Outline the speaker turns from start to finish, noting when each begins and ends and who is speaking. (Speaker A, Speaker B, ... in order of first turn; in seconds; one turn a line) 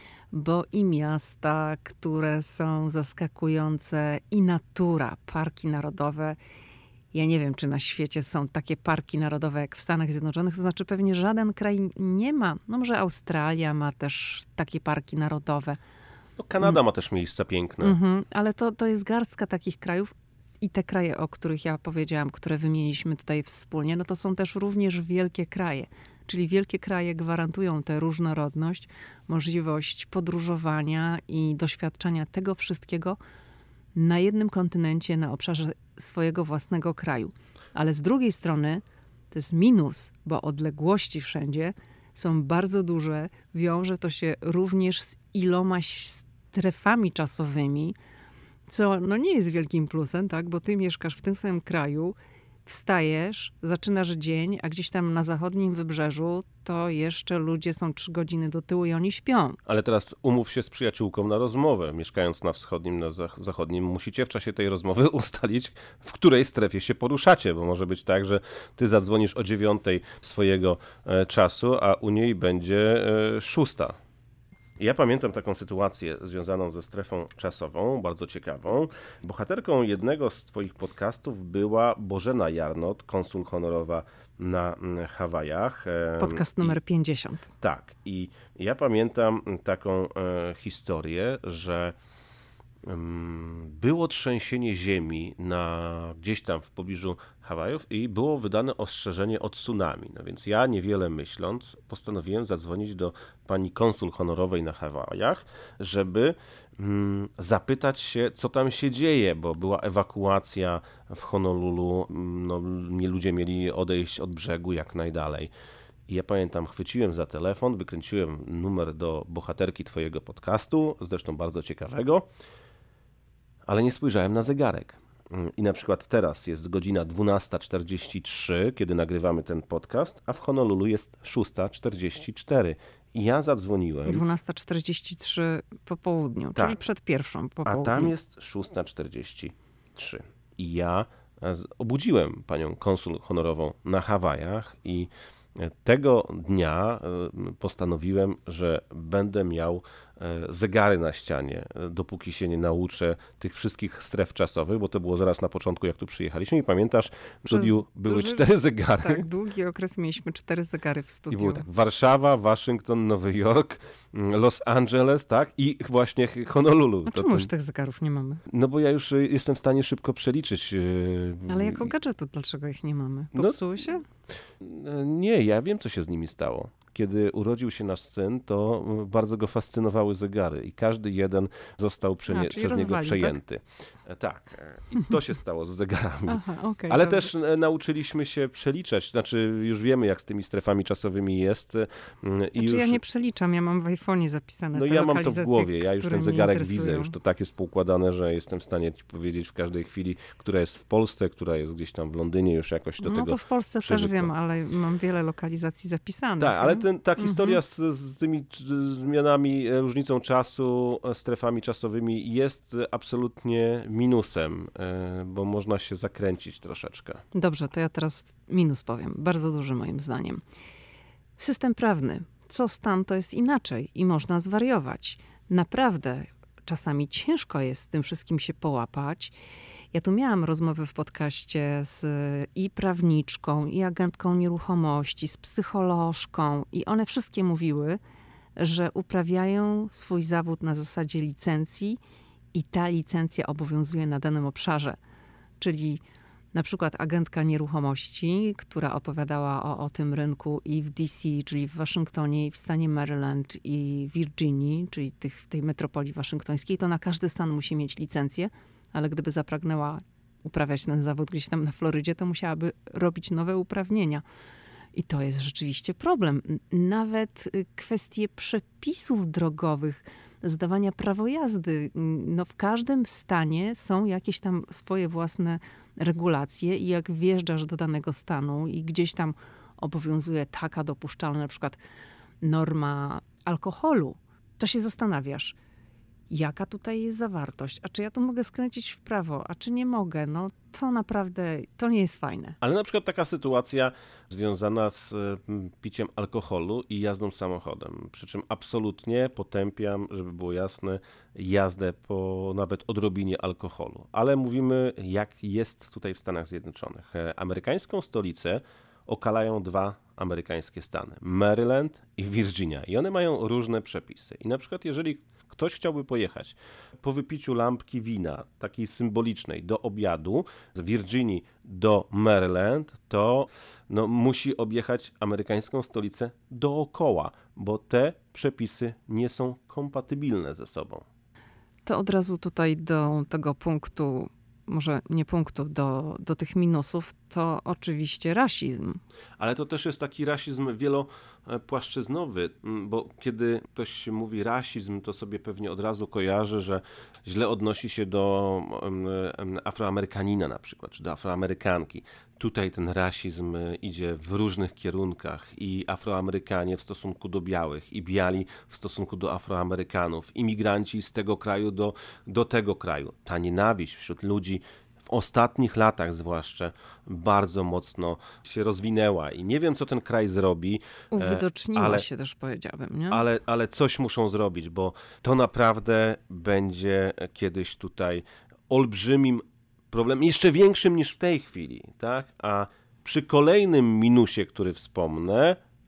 Speaker A: 0.3-6.4
Speaker A: 7.1-15.8
Speaker B: 16.4-18.0
Speaker A: 17.8-33.2
Speaker A: 34.0-48.0
Speaker A: 48.7-59.6
Speaker B: 59.7-74.0
Speaker B: 74.8-86.8
Speaker A: 86.2-87.5
Speaker B: 87.6-92.0
Speaker B: 92.8-115.5
Speaker B: 116.1-122.3
Speaker B: 123.7-134.2
Speaker A: 134.1-138.1
Speaker B: 137.7-159.2
Speaker A: 157.5-161.7
Speaker B: 161.3-167.5
Speaker A: 167.1-168.4
Speaker B: 168.5-171.9
Speaker A: 171.5-174.1
Speaker B: 173.3-173.6
Speaker B: 174.6-193.0
Speaker A: 182.3-183.4
Speaker A: 186.3-187.3
Speaker A: 192.6-197.2
Speaker B: 194.7-204.3
Speaker A: 203.0-207.6
Speaker B: 206.4-217.2
Speaker A: 217.3-220.4
Speaker A: 221.4-229.3
Speaker A: 229.9-238.0
Speaker A: 238.6-242.0
Speaker A: 242.5-245.0
Speaker A: 245.6-246.0
Speaker A: 246.5-264.2
Speaker A: 264.9-281.8
Speaker A: 282.4-285.6
Speaker A: 286.3-292.6
Speaker B: 292.6-331.1
Speaker A: 331.9-339.0
Speaker B: 339.4-372.1
Speaker A: 371.1-373.2
Speaker B: 373.1-385.6